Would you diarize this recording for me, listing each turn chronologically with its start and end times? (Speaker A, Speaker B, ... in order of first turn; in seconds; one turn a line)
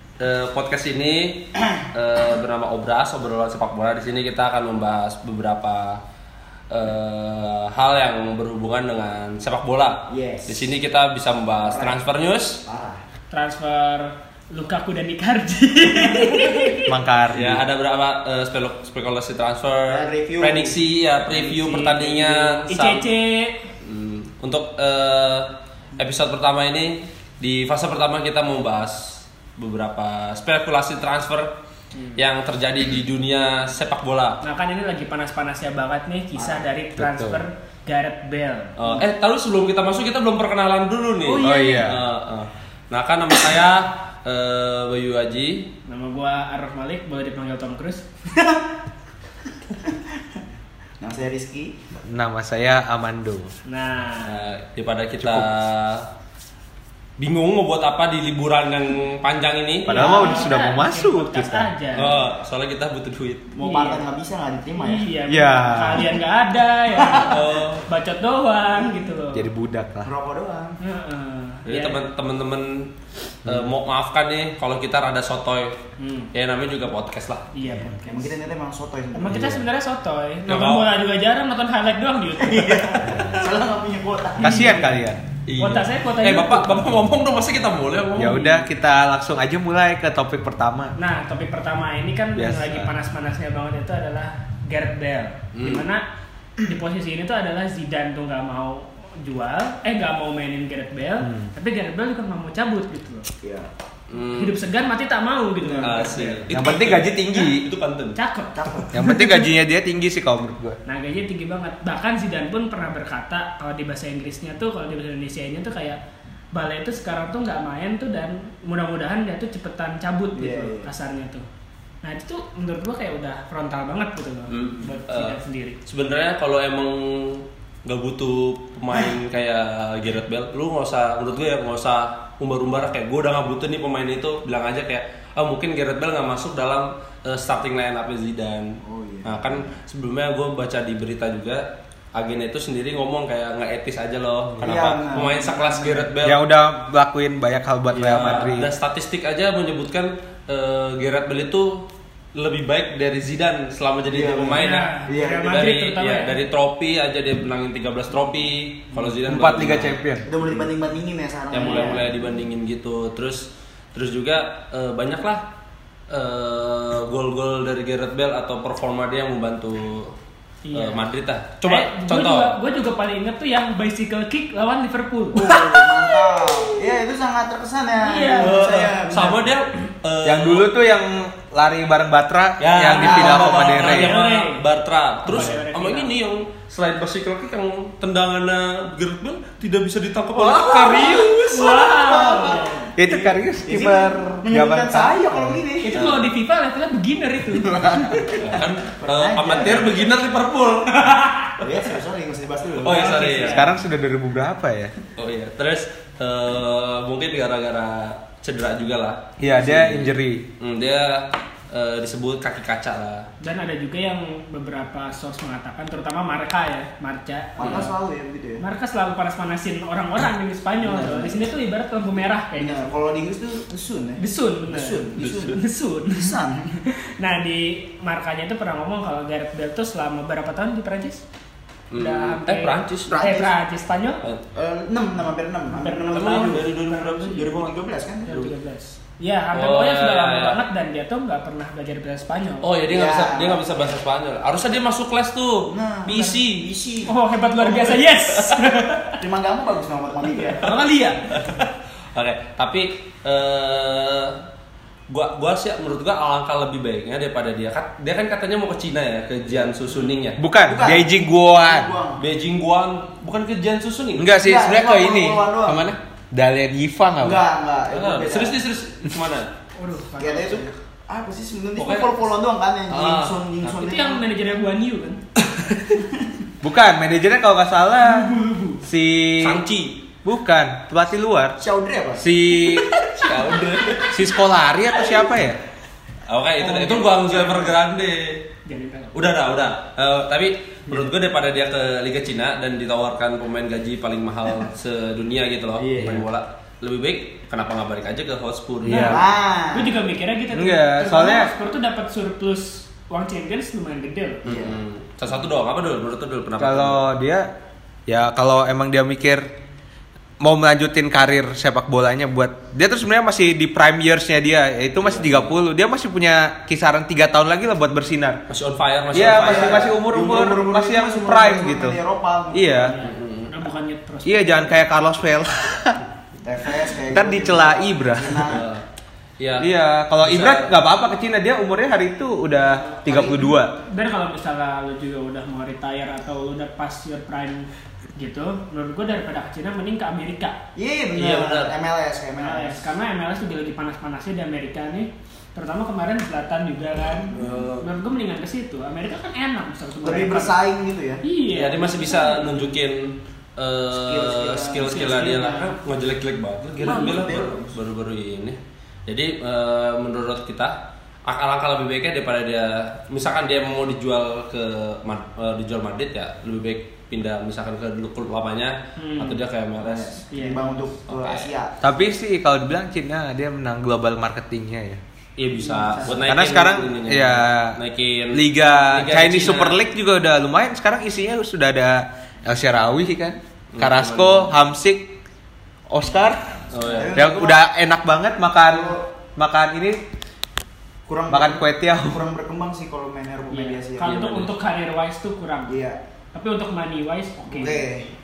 Speaker A: 0.2-6.0
Speaker A: 6.7-12.6
Speaker B: 10.1-10.7
Speaker B: 11.6-12.1
Speaker B: 12.6-13.0
Speaker C: 13.3-16.9
Speaker D: 16.9-17.6
Speaker A: 17.3-23.1
Speaker B: 19.9-20.8
Speaker C: 21.3-23.6
Speaker A: 23.8-31.5
Speaker C: 31.9-32.2
Speaker A: 32.1-34.4
Speaker C: 34.4-38.8
Speaker B: 36.4-36.7
Speaker D: 37.0-37.4
Speaker A: 38.8-45.7
Speaker C: 41.2-41.9
Speaker D: 41.4-42.0
Speaker C: 45.9-48.0
Speaker B: 48.3-48.6
Speaker B: 51.0-51.8
Speaker D: 52.0-53.5
Speaker C: 53.7-54.4
Speaker A: 54.2-56.1
Speaker D: 55.2-55.5
Speaker A: 57.2-60.1
Speaker D: 59.9-61.7
Speaker C: 59.9-62.2
Speaker B: 60.0-60.5
Speaker A: 61.9-63.5
Speaker B: 63.5-65.1
Speaker C: 63.6-64.0
Speaker C: 64.8-69.5
Speaker D: 65.3-66.1
Speaker B: 66.9-67.6
Speaker A: 67.2-67.8
Speaker D: 69.3-70.1
Speaker B: 70.0-70.8
Speaker C: 70.8-72.0
Speaker A: 71.7-72.9
Speaker D: 73.4-73.7
Speaker A: 73.4-75.8
Speaker C: 76.0-76.3
Speaker A: 76.3-77.5
Speaker C: 77.5-78.3
Speaker B: 77.9-79.5
Speaker C: 79.1-83.3
Speaker D: 79.3-79.6
Speaker A: 80.5-80.9
Speaker B: 82.4-84.8
Speaker D: 83.0-83.5
Speaker D: 84.4-85.2
Speaker C: 84.4-84.9
Speaker A: 85.5-88.6
Speaker C: 85.6-86.8
Speaker D: 88.2-90.9
Speaker C: 91.0-96.0
Speaker D: 92.3-92.9
Speaker A: 95.5-95.8
Speaker C: 96.6-103.3
Speaker D: 101.2-101.5
Speaker B: 103.4-103.7
Speaker A: 104.1-104.6
Speaker C: 104.2-106.4
Speaker B: 105.6-106.5
Speaker A: 105.8-108.2
Speaker D: 106.5-107.7
Speaker C: 108.2-109.5
Speaker B: 108.5-108.9
Speaker D: 108.9-110.8
Speaker C: 110.8-116.0
Speaker C: 116.5-121.4
Speaker B: 120.3-120.9
Speaker C: 122.0-125.8
Speaker A: 124.5-146.4
Speaker B: 138.8-139.6
Speaker D: 144.6-144.8
Speaker B: 144.6-146.1
Speaker D: 146.2-148.7
Speaker A: 147.9-160.6
Speaker B: 154.1-155.5
Speaker C: 154.5-156.3
Speaker D: 159.2-160.2
Speaker B: 160.2-162.2
Speaker A: 161.5-165.4
Speaker C: 161.6-162.0
Speaker A: 166.1-170.1
Speaker C: 170.6-171.1
Speaker A: 170.7-172.6
Speaker C: 171.6-175.5
Speaker B: 175.3-179.5
Speaker A: 175.5-176.2
Speaker C: 178.0-178.7
Speaker A: 178.3-180.7
Speaker D: 180.2-184.2
Speaker A: 182.6-191.8
Speaker B: 183.0-183.9
Speaker C: 183.1-184.6
Speaker C: 185.2-186.1
Speaker B: 190.4-196.2
Speaker C: 190.6-192.9
Speaker D: 192.9-195.6
Speaker C: 195.8-198.4
Speaker A: 195.9-196.2
Speaker B: 197.5-200.0
Speaker A: 198.4-201.2
Speaker C: 200.9-201.6
Speaker B: 201.6-203.3
Speaker A: 202.8-203.7
Speaker C: 202.8-203.7
Speaker D: 203.5-204.9
Speaker A: 205.2-213.3
Speaker D: 209.4-210.5
Speaker C: 213.4-217.9
Speaker B: 217.6-218.6
Speaker A: 217.6-217.9
Speaker C: 218.6-222.9
Speaker B: 220.8-221.4
Speaker B: 222.5-226.8
Speaker C: 224.2-231.2
Speaker A: 225.2-225.5
Speaker A: 231.9-233.2
Speaker C: 231.9-234.2
Speaker B: 232.9-233.5
Speaker B: 234.5-236.7
Speaker C: 235.7-237.5
Speaker A: 236.1-237.7
Speaker B: 237.3-238.4
Speaker C: 238.2-242.7
Speaker A: 239.5-240.6
Speaker A: 242.6-246.7
Speaker B: 242.9-243.7
Speaker B: 245.7-247.1
Speaker C: 246.1-246.4
Speaker C: 247.1-249.2
Speaker A: 247.7-248.7
Speaker B: 249.2-250.6
Speaker C: 250.5-251.4
Speaker A: 250.6-254.4
Speaker A: 255.1-260.4
Speaker D: 260.4-261.9
Speaker B: 260.6-262.2
Speaker A: 262.2-264.3
Speaker D: 264.1-267.4
Speaker B: 264.4-265.8
Speaker B: 267.2-268.6
Speaker A: 267.9-269.5
Speaker C: 269.8-270.7
Speaker B: 270.2-274.2
Speaker A: 271.8-272.3
Speaker A: 272.9-273.5
Speaker C: 273.7-275.2
Speaker A: 275.5-275.8
Speaker D: 276.6-279.6
Speaker C: 278.0-278.8
Speaker A: 279.4-280.0
Speaker D: 280.2-281.6
Speaker B: 281.6-282.2
Speaker D: 282.2-282.9
Speaker A: 282.6-284.2
Speaker D: 284.1-285.6
Speaker A: 286.3-288.4
Speaker C: 286.6-287.8
Speaker C: 288.6-289.1
Speaker A: 289.1-299.3
Speaker B: 295.8-296.2
Speaker D: 298.8-299.2
Speaker C: 298.9-299.2
Speaker B: 299.0-299.9
Speaker C: 299.7-304.4
Speaker D: 300.5-301.5
Speaker B: 304.4-304.8
Speaker A: 304.4-307.0
Speaker D: 306.6-307.5
Speaker D: 308.1-309.5
Speaker D: 310.4-318.4
Speaker A: 315.0-315.5
Speaker A: 318.5-319.9
Speaker D: 319.1-322.0
Speaker B: 319.1-323.0
Speaker D: 322.5-323.0
Speaker C: 322.8-324.8
Speaker A: 323.0-323.6
Speaker D: 324.2-326.0
Speaker B: 326.4-328.6
Speaker D: 327.1-328.6
Speaker A: 328.5-328.8
Speaker A: 329.4-329.7
Speaker D: 329.6-333.7
Speaker A: 330.2-330.7
Speaker B: 333.1-333.5
Speaker C: 333.7-340.6
Speaker B: 340.8-342.8
Speaker A: 341.1-341.7
Speaker C: 342.4-350.6
Speaker B: 347.3-347.6
Speaker A: 347.3-347.9
Speaker B: 350.0-351.2
Speaker C: 351.2-352.6
Speaker A: 351.5-370.2
Speaker B: 353.9-355.5
Speaker C: 354.9-355.7
Speaker B: 356.7-357.8
Speaker C: 356.8-357.2
Speaker C: 369.0-369.4
Speaker B: 369.8-371.7
Speaker C: 370.3-370.7
Speaker A: 371.1-371.5
Speaker D: 371.8-375.0
Speaker A: 375.4-379.8
Speaker C: 375.6-376.2
Speaker D: 376.2-377.8
Speaker D: 378.3-385.2
Speaker A: 383.7-384.6
Speaker D: 385.9-386.6
Speaker A: 386.7-387.1
Speaker B: 386.9-387.6
Speaker D: 387.1-390.0
Speaker B: 388.6-389.1
Speaker B: 391.1-394.2
Speaker D: 391.3-392.2
Speaker C: 393.5-395.7
Speaker A: 394.0-394.5
Speaker B: 395.7-396.0
Speaker C: 396.3-397.9
Speaker B: 397.4-398.1